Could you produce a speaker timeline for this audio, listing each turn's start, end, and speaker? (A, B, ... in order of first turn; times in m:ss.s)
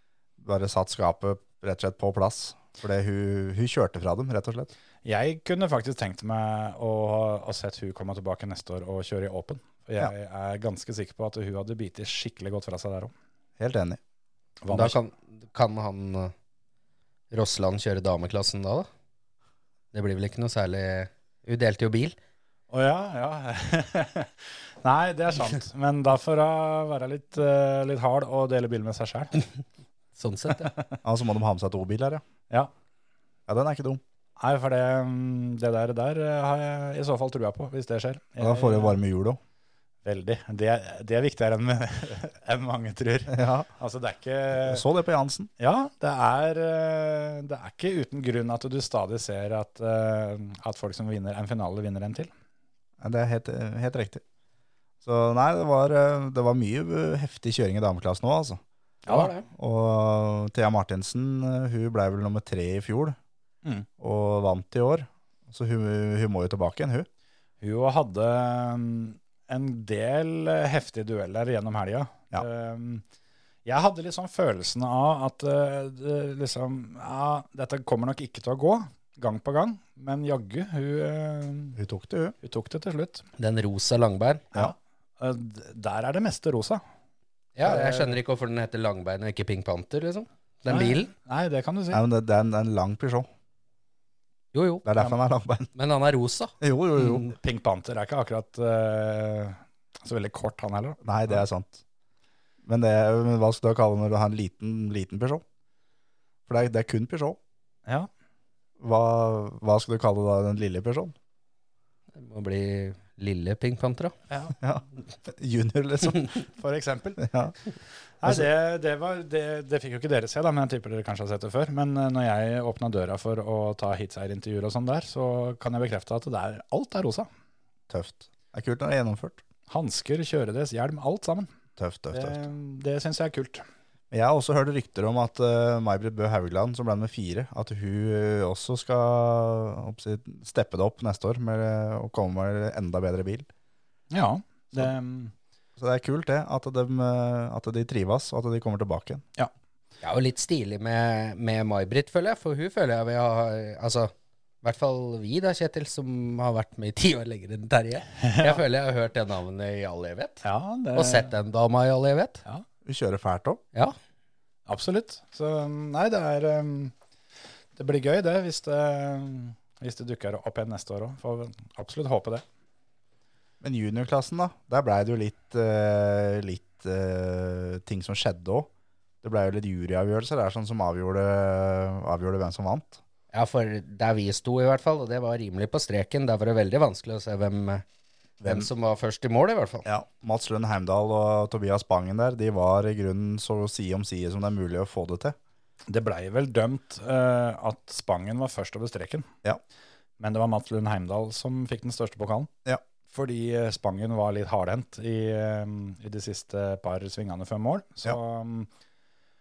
0:00.4-0:04.7 A
0:05.0-0:13.1 B
0:13.6-0:14.0 A
0:14.6-0:15.0 B
0:14.7-0:16.3 C
0:17.3-0:18.9 C
0:19.9-0:22.2 C
0:22.7-0:29.4 B
0:30.2-0:30.7 C
0:31.0-0:32.2 A
0:33.5-0:34.0 A
0:34.4-0:39.0 B
0:38.4-0:39.4 A
0:40.0-0:44.8 B
0:43.3-0:43.7 A
0:44.6-0:45.5 A
0:45.6-0:52.3 B
0:53.0-0:54.2 A
0:55.0-0:58.6 A
0:59.1-0:59.3 B
0:59.1-0:59.4 C
0:59.5-1:03.2 A
1:04.0-1:07.1 A
1:07.6-1:13.0 B
1:13.6-1:21.8 B
1:21.8-1:22.4 A
1:22.4-1:23.2 B
1:23.4-1:24.4 C
1:24.5-1:26.8 B
1:27.6-1:31.1 C
1:27.6-1:28.2 B
1:30.7-1:32.0 B
1:31.9-1:33.3 A
1:34.5-1:34.9 C
1:34.8-1:35.7 A
1:35.7-1:36.5 C
1:36.6-1:37.3 A
1:37.0-1:41.4 B
1:41.0-1:41.8 A
1:42.6-1:45.4 A
1:46.5-1:47.4 A
1:48.8-1:51.1 A
1:52.2-1:54.1 C
1:54.3-1:54.6 B
1:54.6-1:56.4 A
1:56.3-1:57.3 B
1:57.2-1:57.5 A
1:58.2-2:07.3 B
2:07.9-2:09.4 A
2:09.7-2:11.5 B
2:11.8-2:12.4 A
2:12.1-2:13.6 B
2:14.1-2:23.5 A
2:24.1-2:25.3 B
2:25.8-2:29.2 A
2:30.0-2:42.4 C
2:38.2-2:38.6 B
2:40.4-2:41.3 B
2:42.8-2:43.6 A
2:44.7-2:46.9 B
2:47.8-2:52.4 B
2:53.6-2:58.7 A
2:59.2-3:03.0 A
3:03.3-3:07.8 C
3:08.4-3:08.7 A
3:08.4-3:09.9 C
3:09.8-3:15.4 A
3:15.9-3:19.3 B
3:20.2-3:22.5 B
3:23.1-3:28.7 B